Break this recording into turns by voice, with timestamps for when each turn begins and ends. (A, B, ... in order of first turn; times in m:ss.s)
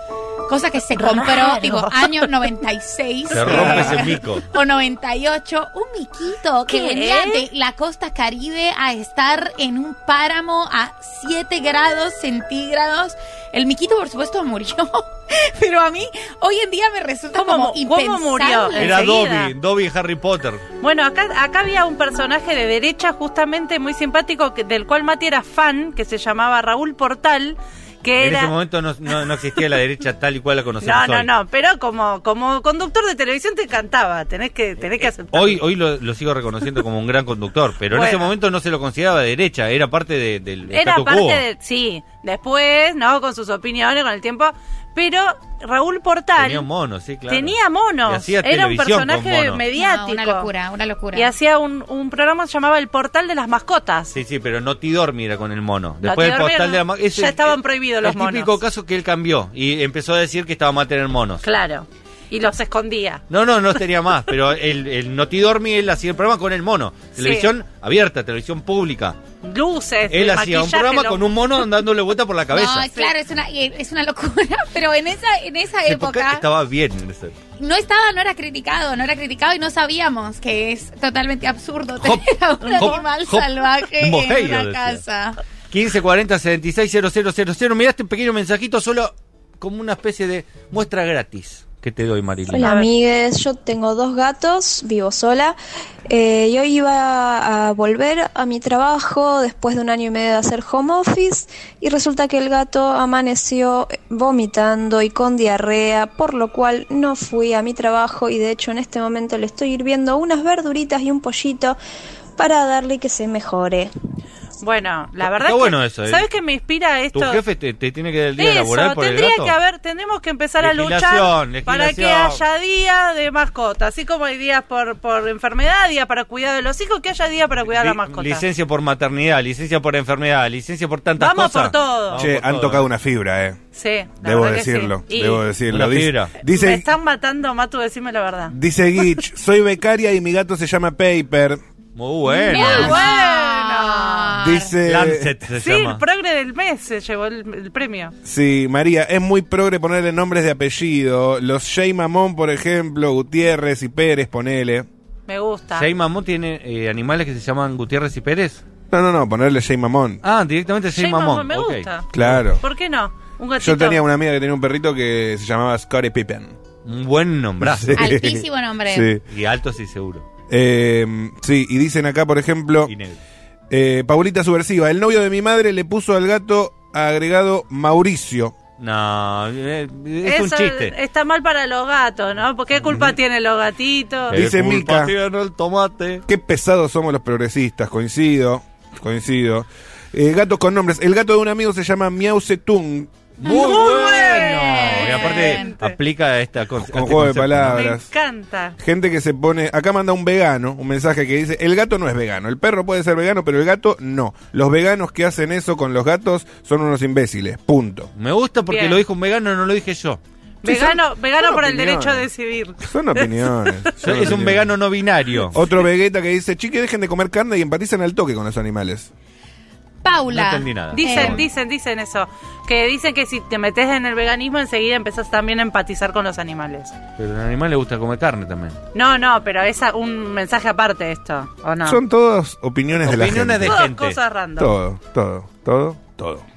0:00.5-0:19.1 A
0:01.0-0:02.3 B
0:03.3-0:04.4 C
0:06.7-0:07.4 B
0:17.3-0:19.5 B
0:18.8-0:20.6 C
0:20.8-0:28.5 B
0:28.2-0:31.3 C
0:30.8-0:35.6 B
0:35.0-0:41.4 C
0:37.9-0:38.3 B
0:40.7-0:46.6 B
0:46.4-0:49.6 C
0:47.3-0:50.5 B
0:49.7-0:51.3 A
0:51.1-0:54.1 B
0:54.1-1:01.4 C
0:56.0-0:58.6 B
1:01.4-1:03.2 B
1:03.3-1:09.2 C
1:07.2-1:07.5 B
1:09.4-1:11.3 B
1:10.1-1:12.9 C
1:12.5-1:16.4 A
1:15.8-1:17.4 C
1:17.6-1:25.4 A
1:22.0-1:25.0 C
1:25.7-1:32.7 C
1:32.5-1:35.6 D
1:32.6-1:32.9 B
1:36.1-1:51.8 D
1:52.4-1:53.9 D
1:54.6-1:57.4 B
1:55.2-1:56.3 C
1:57.1-1:59.5 C
1:58.4-2:08.4 B
2:00.6-2:02.4 C
2:07.6-2:12.9 C
2:11.2-2:12.2 B
2:12.2-2:13.6 E
2:13.7-2:15.4 B
2:14.2-2:16.9 E
2:15.7-2:16.3 C
2:16.4-2:18.5 B
2:18.5-2:21.6 E
2:22.0-2:23.0 C
2:22.4-2:24.3 B
2:22.4-2:24.7 A
2:24.4-2:25.3 E
2:24.8-2:26.0 C
2:25.6-2:28.1 B
2:28.2-2:34.9 E
2:35.3-2:35.9 B
2:35.7-2:38.6 C
2:38.9-2:40.2 E
2:40.2-2:42.4 C
2:40.9-2:42.1 B
2:42.1-2:42.6 E
2:42.6-2:44.0 B
2:43.6-2:46.6 E
2:46.8-2:48.1 C
2:47.6-2:49.2 E
2:48.0-2:49.1 A
2:49.2-2:50.2 C
2:50.5-2:52.9 E
2:52.9-2:53.2 C
2:53.7-2:58.5 E
2:58.8-3:00.9 C
3:00.2-3:04.4 B
3:04.3-3:05.1 E
3:04.3-3:06.2 C
3:06.3-3:13.1 E
3:13.4-3:17.8 C
3:13.4-3:15.9 B
3:13.8-3:15.7 A
3:16.8-3:18.1 E
3:17.7-3:18.8 B
3:18.8-3:28.1 E
3:28.2-3:30.2 C
3:28.7-3:29.0 B
3:30.6-3:34.1 B
3:30.6-3:32.3 E
3:32.8-3:34.7 E
3:34.0-3:35.6 C
3:35.5-3:39.1 E
3:40.0-3:41.4 A
3:40.3-3:41.4 C
3:40.9-3:46.9 B
3:47.2-3:48.8 C
3:48.9-3:52.0 B
3:51.8-3:53.8 E
3:53.0-3:54.2 C
3:53.6-3:54.7 B
3:54.6-3:56.4 E